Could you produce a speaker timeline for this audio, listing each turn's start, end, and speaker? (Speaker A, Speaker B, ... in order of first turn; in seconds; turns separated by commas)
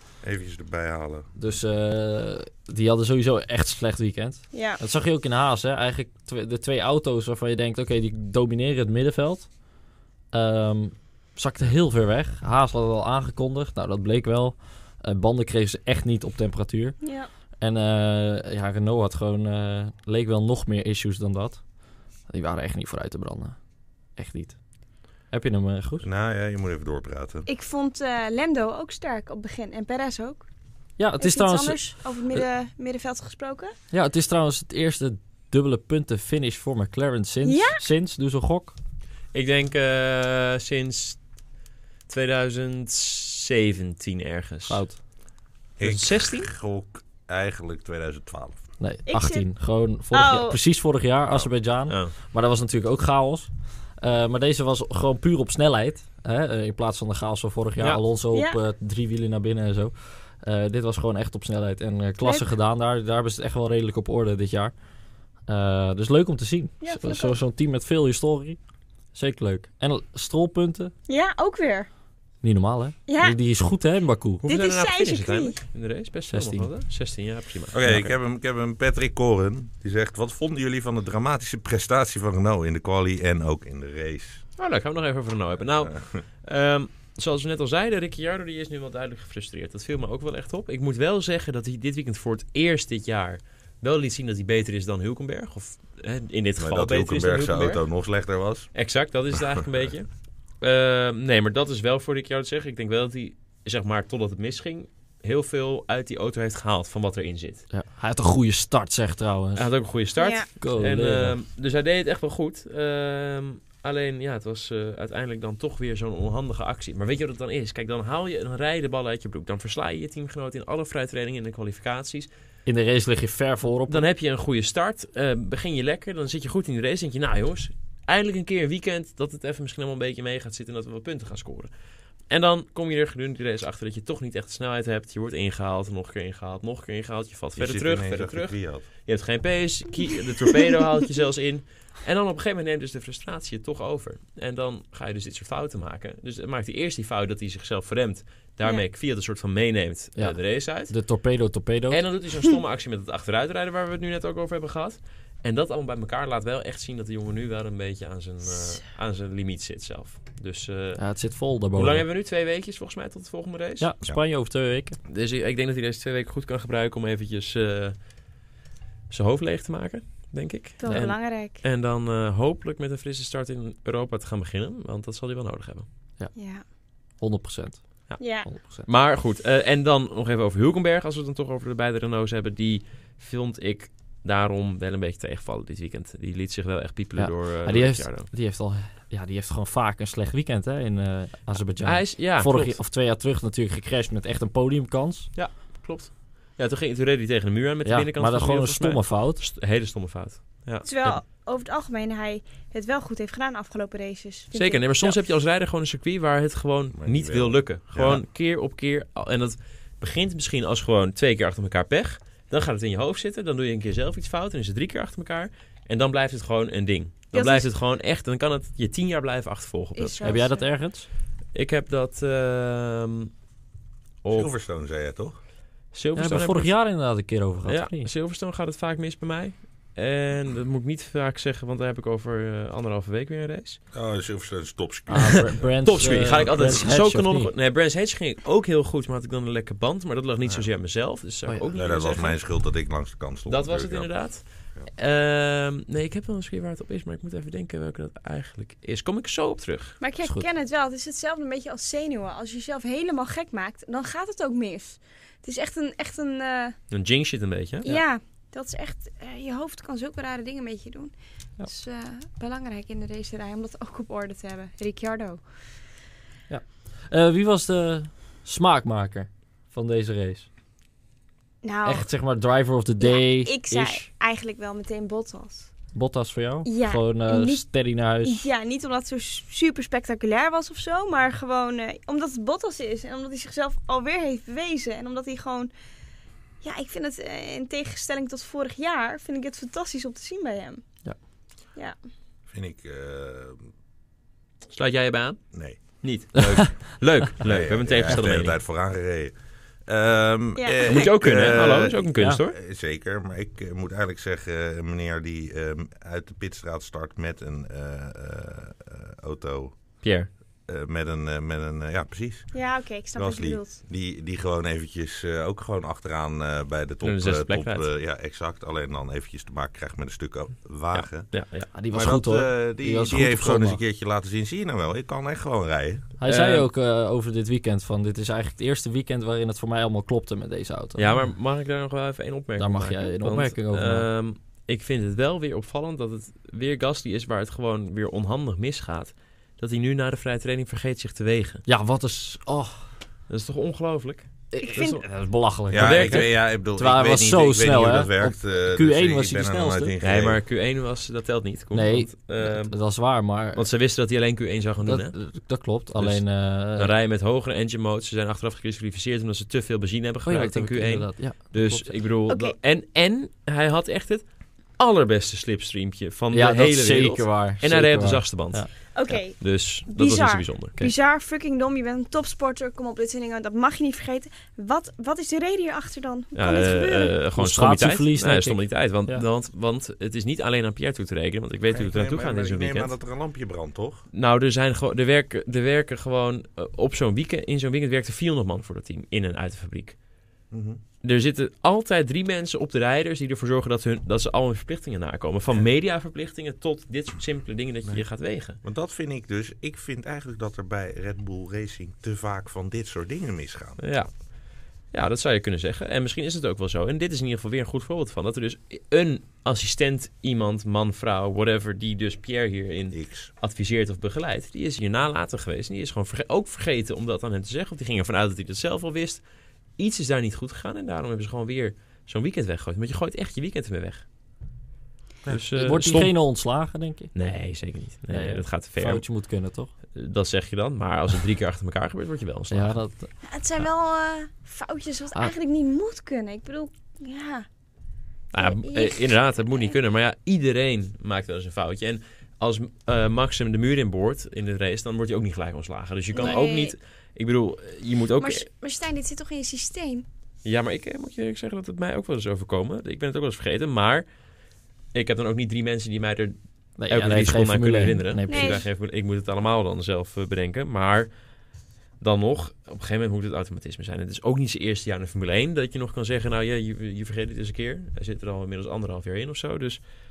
Speaker A: 0.2-1.3, Speaker B: 1.4-9.6, Speaker C: 4.5-4.8, Speaker B: 10.3-17.0, Speaker C: 17.0-17.3, Speaker B: 17.6-21.6, Speaker B: 22.3-23.6, Speaker B: 24.1-24.6, Speaker B: 25.3-26.1, Speaker A: 26.0-27.5, Speaker C: 27.4-30.4, Speaker B: 31.0-32.4, Speaker C: 31.2-33.7, Speaker B: 33.9-38.7, Speaker C: 37.4-37.8, Speaker D: 39.3-41.2, Speaker D: 42.1-44.8, Speaker B: 44.7-45.0, Speaker A: 45.8-48.6, Speaker D: 45.8-46.5, Speaker B: 48.8-64.7, Speaker C: 49.1-49.5, Speaker C: 50.1-50.6, Speaker D: 51.9-52.1, Speaker C: 58.3-58.6, Speaker B: 65.5-68.6, Speaker C: 66.8-67.3, Speaker B: 69.1-70.9, Speaker C: 71.1-71.9, Speaker B: 72.4-74.4, Speaker C: 73.1-73.4, Speaker D: 74.4-78.1, Speaker C: 74.4-75.5, Speaker B: 76.3-76.7, Speaker A: 77.7-84.4, Speaker D: 84.6-97.8, Speaker A: 85.8-86.2, Speaker A: 96.6-98.7, Speaker D: 98.7-107.7, Speaker B: 107.7-109.7, Speaker D: 109.5-122.3, Speaker C: 110.2-110.5, Speaker B: 110.6-111.4, Speaker B: 122.7-124.0, Speaker D: 123.9-131.7, Speaker D: 132.3-150.9, Speaker A: 137.6-138.8, Speaker B: 150.2-152.0, Speaker D: 151.9-161.0, Speaker B: 161.0-162.0, Speaker D: 161.7-163.9, Speaker B: 163.8-165.0, Speaker D: 165.1-168.0, Speaker D: 169.1-175.8, Speaker C: 170.8-171.6, Speaker B: 170.8-171.1, Speaker C: 176.3-176.6, Speaker B: 177.2-178.9, Speaker D: 178.1-188.3, Speaker C: 178.2-178.5, Speaker B: 187.2-195.3, Speaker D: 191.8-192.8, Speaker D: 195.3-201.2, Speaker B: 197.8-199.4, Speaker C: 200.8-205.2, Speaker D: 204.5-220.4, Speaker A: 206.9-208.2, Speaker C: 217.3-217.7, Speaker C: 219.9-220.7, Speaker B: 220.2-221.1, Speaker D: 221.5-223.3, Speaker D: 224.2-224.5, Speaker A: 224.3-225.3, Speaker D: 225.9-226.7, Speaker B: 226.2-228.1, Speaker D: 227.7-233.8, Speaker A: 233.9-236.9, Speaker B: 235.1-237.5, Speaker D: 235.8-242.4, Speaker A: 241.7-244.1, Speaker D: 243.5-250.0, Speaker C: 250.0-256.8, Speaker D: 256.9-257.9, Speaker C: 257.8-261.1, Speaker C: 261.6-265.4, Speaker B: 266.5-270.5, Speaker C: 271.6-272.1, Speaker B: 271.8-274.1, Speaker C: 273.0-275.7, Speaker B: 275.9-278.5, Speaker C: 276.6-277.6, Speaker C: 278.2-285.7, Speaker C: 286.6-290.8, Speaker A: 292.5-293.7, Speaker D: 294.7-298.6, Speaker A: 295.5-295.8, Speaker A: 297.4-299.3, Speaker A: 299.9-310.0, Speaker C: 300.6-301.1, Speaker D: 300.9-302.6, Speaker B: 302.2-302.4, Speaker D: 310.0-310.3, Speaker A: 310.7-312.5, Speaker C: 312.5-313.8, Speaker A: 313.1-321.3, Speaker D: 317.0-317.9, Speaker D: 320.9-321.7, Speaker B: 321.7-323.8, Speaker A: 321.9-326.0, Speaker B: 326.2-331.2, Speaker D: 326.2-326.6, Speaker D: 331.0-341.6, Speaker B: 332.6-334.1, Speaker B: 341.6-342.9, Speaker D: 343.3-344.9, Speaker B: 344.5-349.9, Speaker C: 344.6-345.0, Speaker A: 345.7-350.4, Speaker D: 345.7-346.3, Speaker D: 350.0-352.7, Speaker B: 351.7-353.6, Speaker D: 353.5-355.2, Speaker B: 354.9-356.9, Speaker D: 355.9-364.2, Speaker B: 360.2-361.9, Speaker C: 362.3-362.6, Speaker D: 364.8-370.9, Speaker B: 366.3-369.2, Speaker C: 368.9-377.1, Speaker D: 376.3-382.9, Speaker B: 377.4-379.2, Speaker A: 381.7-384.0, Speaker D: 384.1-390.0, Speaker A: 390.5-390.8, Speaker D: 391.0-398.6, Speaker A: 398.6-403.8, Speaker D: 403.8-404.3, Speaker D: 404.9-419.2, Speaker A: 412.9-413.3, Speaker D: 419.8-424.0, Speaker D: 425.3-426.1, Speaker B: 425.5-427.1, Speaker D: 427.1-429.0, Speaker B: 428.1-429.7, Speaker D: 429.9-432.8, Speaker B: 432.5-433.1, Speaker C: 433.2-437.4, Speaker D: 438.3-448.4, Speaker C: 438.4-439.8, Speaker C: 446.1-446.7, Speaker C: 448.2-450.1, Speaker D: 450.4-454.1, Speaker D: 454.9-456.3, Speaker B: 456.8-458.6, Speaker D: 456.9-461.1, Speaker C: 458.3-458.7, Speaker D: 462.0-469.8